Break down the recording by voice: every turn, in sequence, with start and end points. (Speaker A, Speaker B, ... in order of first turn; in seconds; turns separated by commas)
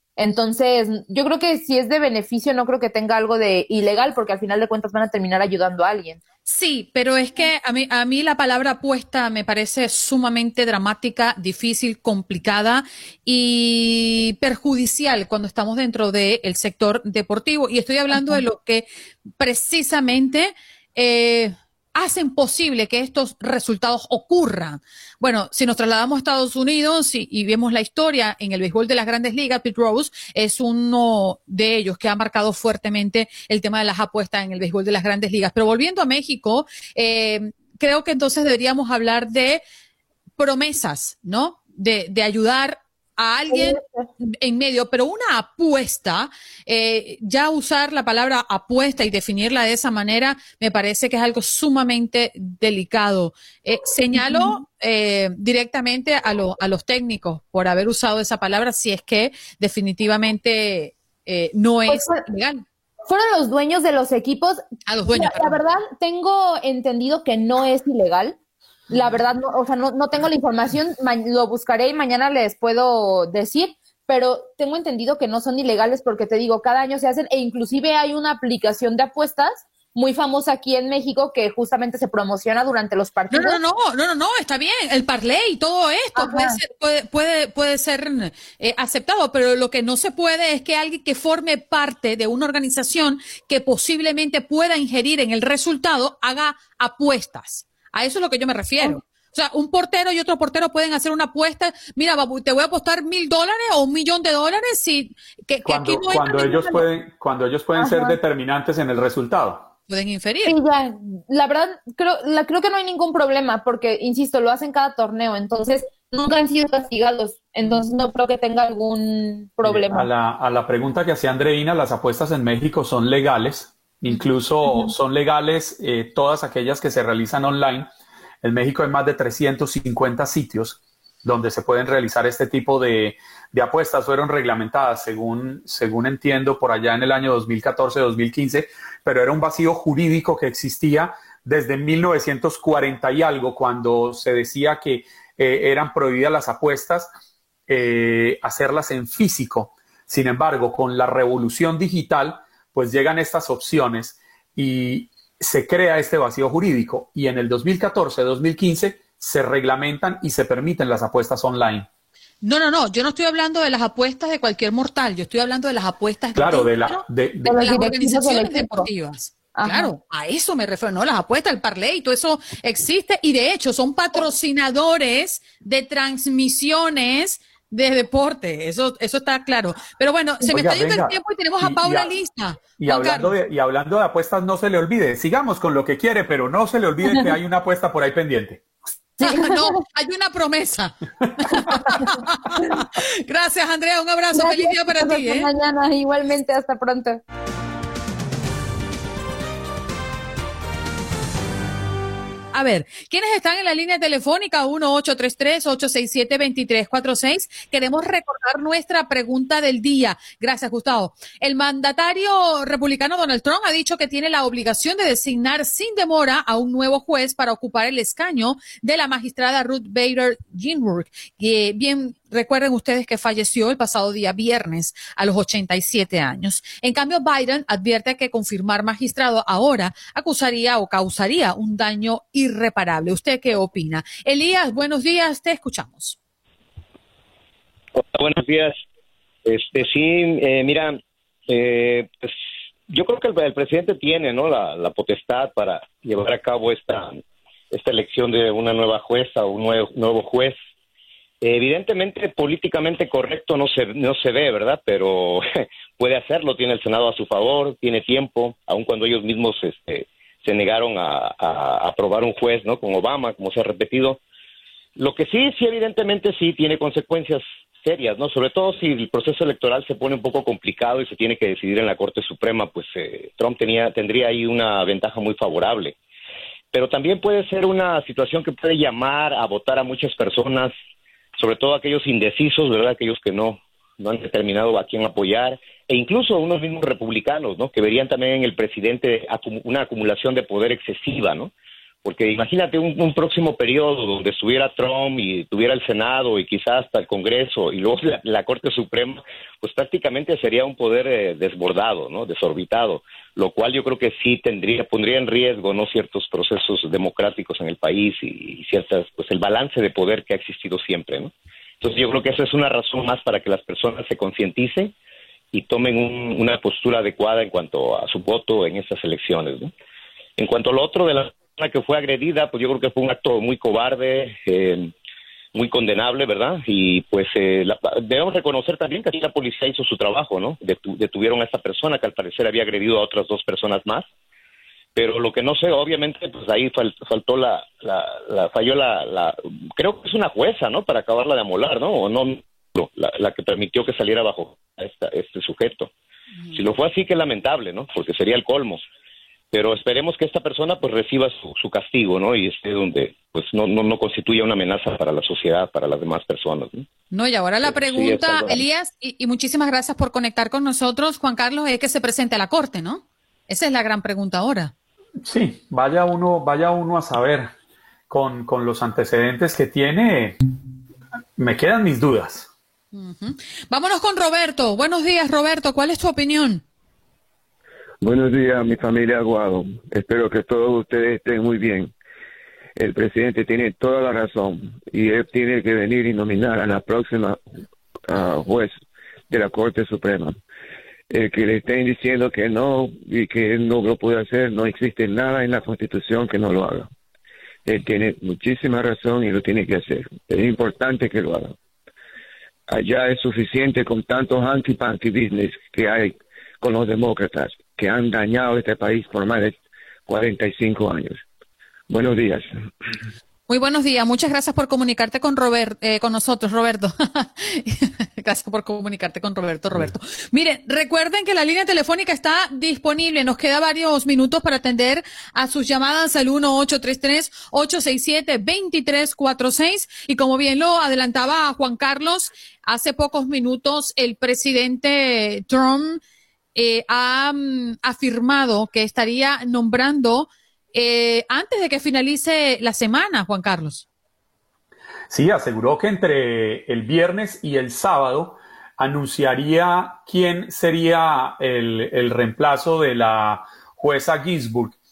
Speaker A: 0.2-6.2, Speaker B: 6.5-18.9, Speaker A: 18.1-18.4, Speaker B: 19.4-39.6, Speaker B: 40.4-62.6, Speaker A: 43.5-44.1, Speaker A: 54.1-54.6, Speaker A: 61.9-62.2, Speaker A: 63.1-64.6, Speaker B: 64.9-65.6, Speaker A: 65.1-68.4, Speaker A: 68.9-83.6, Speaker B: 83.3-106.5, Speaker A: 86.2-86.6, Speaker C: 105.7-109.7, Speaker A: 106.4-106.8, Speaker A: 107.8-108.2, Speaker B: 109.9-110.6, Speaker A: 110.5-120.1, Speaker C: 119.6-127.9, Speaker C: 128.4-147.1, Speaker C: 147.7-161.9, Speaker B: 162.4-167.0, Speaker C: 166.4-167.6, Speaker A: 167.5-168.9, Speaker B: 167.5-183.3, Speaker A: 169.6-169.9, Speaker C: 180.5-182.1, Speaker C: 182.8-188.6, Speaker B: 189.2-195.5, Speaker A: 189.2-189.8, Speaker A: 191.6-192.6, Speaker A: 194.3-197.2, Speaker B: 202.5-236.2, Speaker D: 238.0-238.8, Speaker D: 239.4-242.3, Speaker D: 242.9-247.2, Speaker D: 247.7-250.6, Speaker D: 251.4-255.5, Speaker D: 256.0-264.2, Speaker D: 265.0-276.0, Speaker D: 276.7-280.7, Speaker D: 281.4-291.5, Speaker D: 292.0-314.9, Speaker D: 315.5-319.7, Speaker D: 320.4-324.9, Speaker D: 325.5-334.1, Speaker D: 334.9-345.9, Speaker D: 346.5-348.8, Speaker D: 349.5-356.9, Speaker B: 357.1-364.7, Speaker D: 357.6-358.6, Speaker C: 365.2-367.5, Speaker C: 368.1-370.4, Speaker C: 371.4-372.5, Speaker B: 372.9-376.6, Speaker E: 378.0-381.9, Speaker E: 382.8-387.4, Speaker E: 388.1-390.4, Speaker E: 391.1-396.9, Speaker E: 397.7-401.6, Speaker E: 402.7-411.2, Speaker E: 411.9-412.5, Speaker B: 413.5-436.0, Speaker B: 436.6-443.9, Speaker C: 445.1-454.8